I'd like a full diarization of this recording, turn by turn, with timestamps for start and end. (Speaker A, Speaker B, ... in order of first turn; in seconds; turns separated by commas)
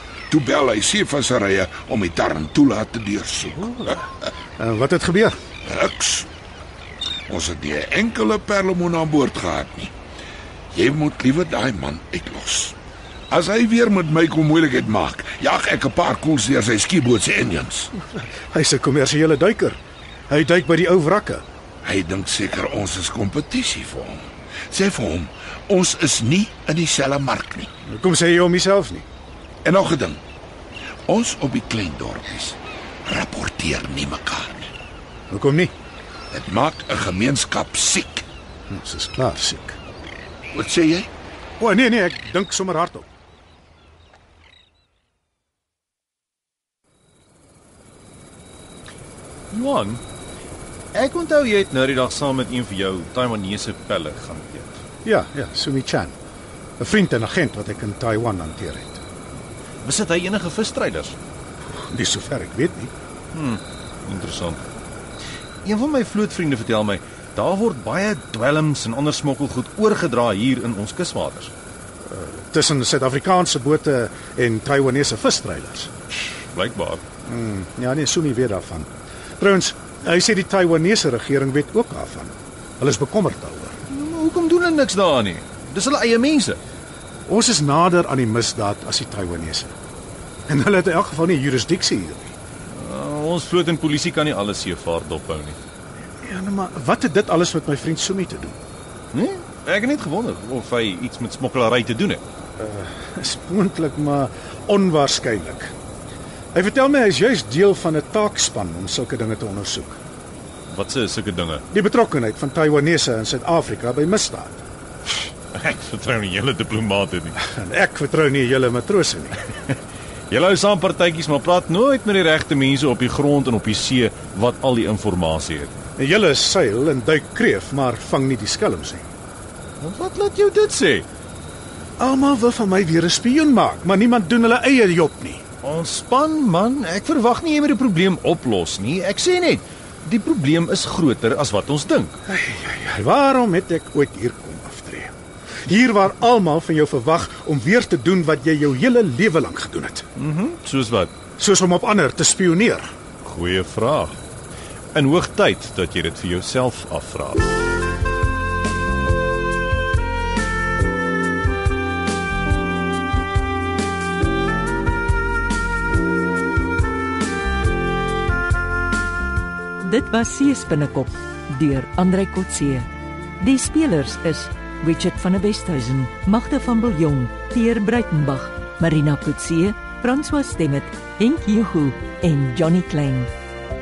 Speaker A: 0.3-4.0, Speaker B: 3.7-4.0, Speaker B: 4.6-5.3, Speaker A: 5.7-6.3, Speaker A: 7.3-9.9, Speaker A: 10.7-12.8, Speaker A: 13.3-17.9, Speaker B: 17.9-19.8, Speaker B: 20.3-21.4, Speaker A: 21.8-27.7, Speaker B: 27.9-29.0, Speaker A: 29.6-30.2, Speaker A: 31.1-34.7, Speaker B: 35.3-35.7, Speaker A: 36.3-38.2, Speaker B: 38.7-39.8, Speaker A: 40.5-41.1, Speaker B: 41.6-43.1, Speaker C: 49.5-50.0, Speaker C: 50.9-54.8, Speaker B: 55.0-56.1, Speaker B: 56.8-59.0, Speaker C: 59.8-61.2, Speaker B: 61.8-62.9, Speaker C: 63.3-64.7, Speaker C: 65.6-71.5, Speaker B: 72.1-75.9, Speaker C: 76.1-77.0, Speaker B: 77.2-83.8, Speaker C: 83.9-86.6, Speaker B: 87.3-89.7, Speaker B: 90.5-92.3, Speaker C: 92.7-95.6, Speaker B: 96.2-98.5, Speaker C: 99.1-102.2, Speaker B: 102.6-105.7, Speaker B: 106.5-110.0, Speaker C: 110.7-111.6, Speaker B: 111.7-114.6, Speaker C: 115.1-117.3, Speaker B: 117.4-119.4, Speaker C: 120.3-125.7, Speaker B: 126.0-129.1, Speaker C: 129.8-131.1, Speaker B: 132.0-135.4, Speaker C: 135.6-142.2, Speaker B: 142.3-145.1, Speaker B: 145.7-150.0, Speaker C: 150.2-151.1, Speaker B: 151.4-152.9, Speaker C: 153.2-154.2, Speaker C: 154.9-157.4, Speaker D: 169.8-172.9, Speaker D: 173.4-183.3